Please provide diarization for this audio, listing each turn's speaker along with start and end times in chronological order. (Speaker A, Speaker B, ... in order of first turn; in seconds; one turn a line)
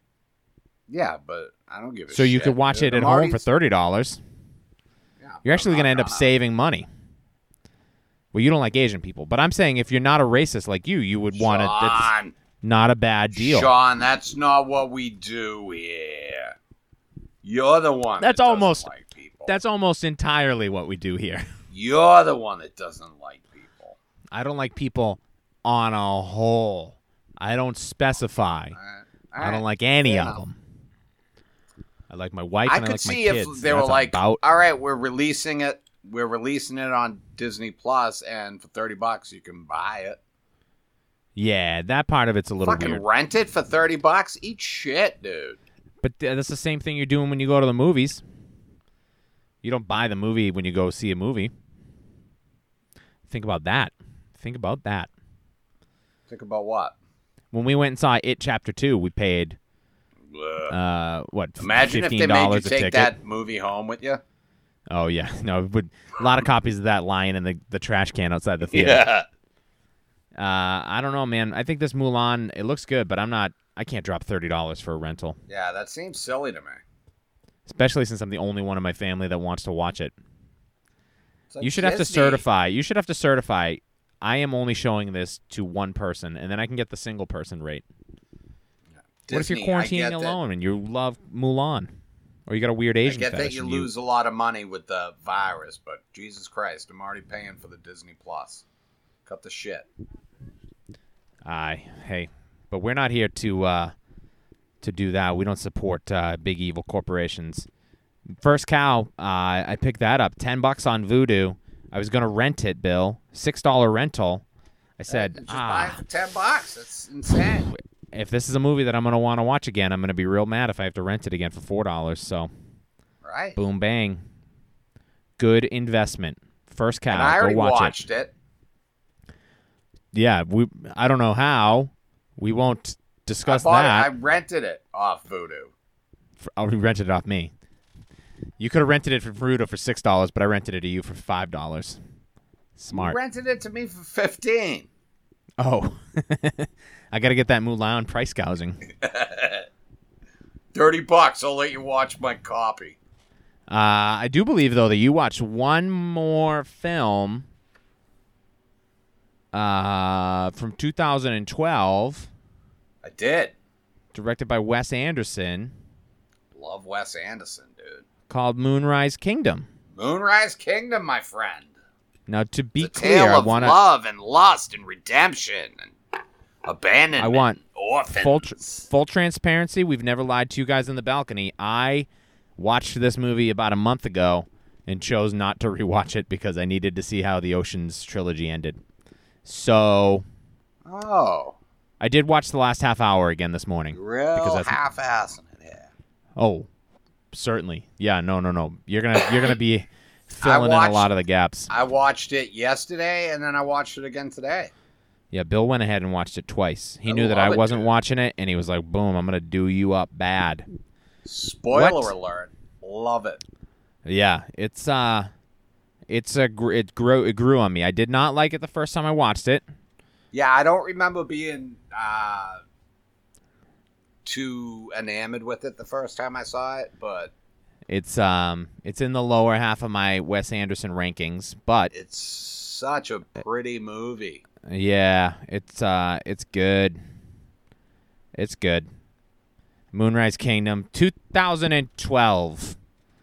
Speaker A: 0.9-3.4
Speaker B: 2.1-4.2
Speaker A: 5.2-6.3
Speaker B: 5.5-6.9
Speaker B: 8.3-12.1
Speaker A: 11.3-12.3
Speaker B: 12.6-13.7
Speaker A: 13.3-16.6
Speaker A: 17.4-19.6
Speaker B: 18.2-18.9
Speaker B: 19.5-21.5
Speaker A: 21.7-24.0
Speaker B: 24.3-28.8
Speaker A: 28.7-30.4
Speaker B: 29.4-30.6
Speaker B: 32.1-34.4
Speaker A: 32.7-40.2
Speaker B: 41.4-43.0
Speaker A: 42.6-45.6
Speaker B: 46.0-48.2
Speaker B: 49.6-51.5
Speaker B: 53.3-55.1
Speaker A: 56.3-57.0
Speaker B: 57.5-59.6
Speaker A: 60.3-60.8
Speaker B: 60.7-63.1
Speaker A: 61.6-64.2
Speaker B: 64.9-69.1
Speaker A: 68.7-69.3
Speaker B: 70.4-75.4
Speaker A: 75.5-76.8
Speaker B: 77.7-80.1
Speaker A: 81.5-82.4
Speaker B: 81.6-87.8
Speaker A: 89.3-90.4
Speaker B: 89.3-91.9
Speaker B: 92.5-93.9
Speaker A: 93.0-98.7
Speaker A: 99.3-99.9
Speaker B: 101.4-103.9
Speaker B: 104.8-107.7
Speaker B: 108.4-114.4
Speaker B: 115.0-116.0
Speaker A: 115.1-117.7
Speaker B: 118.1-122.5
Speaker A: 123.2-123.6
Speaker B: 123.6-124.2
Speaker B: 125.4-128.0
Speaker A: 127.1-128.3
Speaker B: 130.1-134.1
Speaker A: 133.4-135.7
Speaker B: 136.4-137.5
Speaker B: 138.6-142.0
Speaker B: 142.8-143.2
Speaker A: 142.9-144.9
Speaker B: 145.6-148.8
Speaker A: 148.9-149.7
Speaker A: 150.7-153.0
Speaker B: 153.7-157.5
Speaker B: 159.5-162.3
Speaker A: 163.0-163.6
Speaker B: 164.1-165.7
Speaker A: 166.5-168.1
Speaker B: 168.3-169.7
Speaker A: 169.9-171.7
Speaker B: 172.3-173.8
Speaker A: 172.8-175.9
Speaker A: 176.7-178.9
Speaker B: 177.2-188.8
Speaker B: 189.4-190.2
Speaker A: 190.8-191.6
Speaker B: 192.0-194.8
Speaker A: 193.9-195.9
Speaker B: 196.4-196.7
Speaker B: 197.3-201.7
Speaker A: 200.4-201.1
Speaker A: 201.7-204.7
Speaker B: 205.3-210.7
Speaker A: 207.1-207.9
Speaker A: 211.2-213.4
Speaker B: 211.7-212.1
Speaker B: 214.1-215.3
Speaker B: 216.1-219.6
Speaker A: 220.3-222.6
Speaker A: 224.2-227.3
Speaker B: 227.9-231.9
Speaker A: 231.9-234.4
Speaker B: 234.6-237.0
Speaker B: 238.4-238.9
Speaker B: 239.9-242.8